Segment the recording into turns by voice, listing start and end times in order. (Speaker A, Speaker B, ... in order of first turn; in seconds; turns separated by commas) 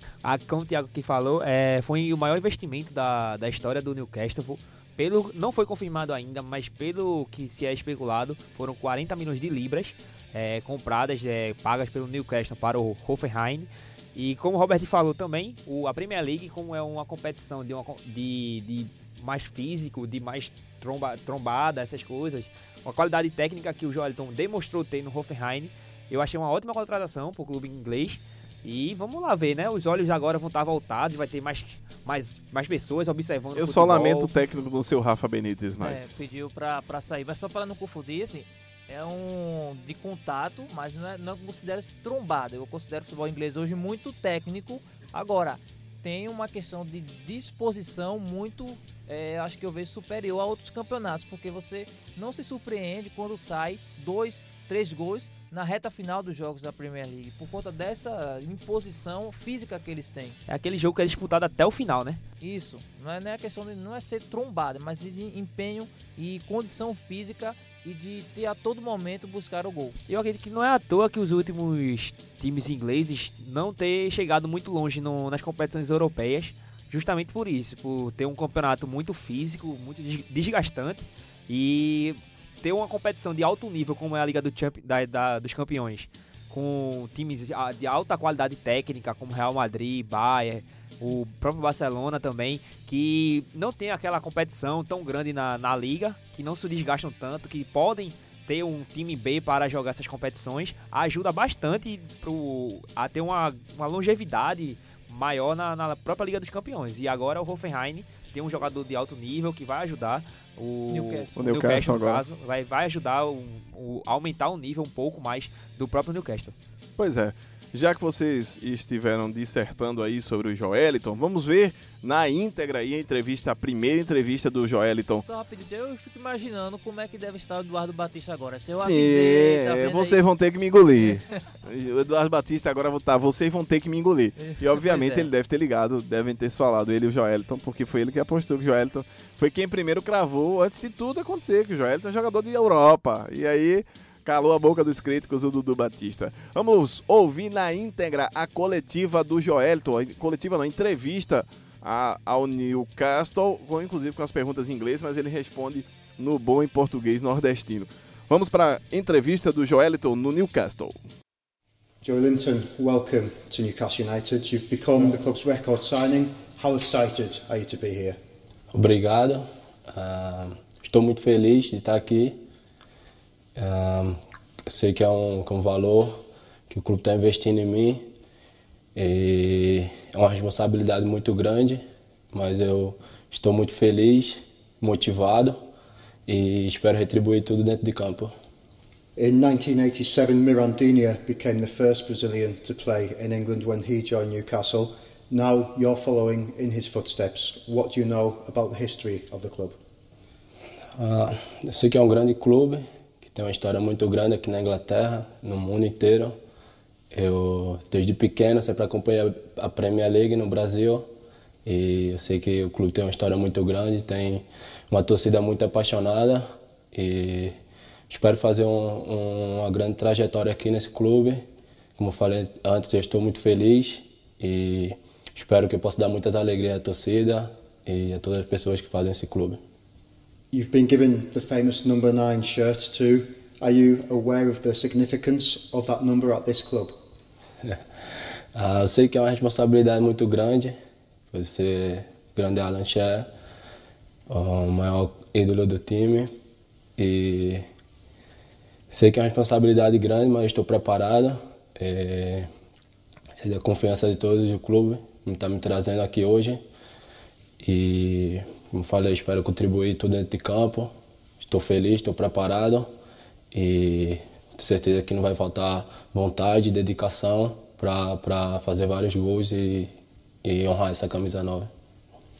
Speaker A: 0.2-34.3, Speaker B: 33.5-36.3, Speaker C: 35.8-60.4, Speaker A: 60.5-62.2, Speaker C: 62.4-70.0, Speaker A: 70.1-116.5, Speaker C: 110.9-111.3, Speaker B: 111.4-112.2, Speaker B: 117.0-125.2, Speaker C: 125.2-130.2, Speaker B: 128.7-161.0, Speaker C: 134.4-135.3, Speaker D: 162.0-168.2, Speaker E: 168.7-172.4, Speaker E: 173.6-178.1, Speaker E: 178.9-185.6, Speaker E: 186.2-188.3, Speaker D: 189.2-199.8, Speaker E: 200.9-206.4, Speaker E: 207.1-211.1, Speaker E: 211.6-217.6, Speaker E: 218.1-229.6, Speaker D: 230.5-237.0, Speaker E: 238.5-240.8, Speaker E: 241.3-243.3, Speaker E: 244.3-246.3, Speaker E: 247.0-247.7, Speaker E: 248.9-252.5, Speaker E: 253.3-256.6, Speaker E: 257.6-262.9, Speaker E: 263.5-269.9, Speaker E: 270.4-271.7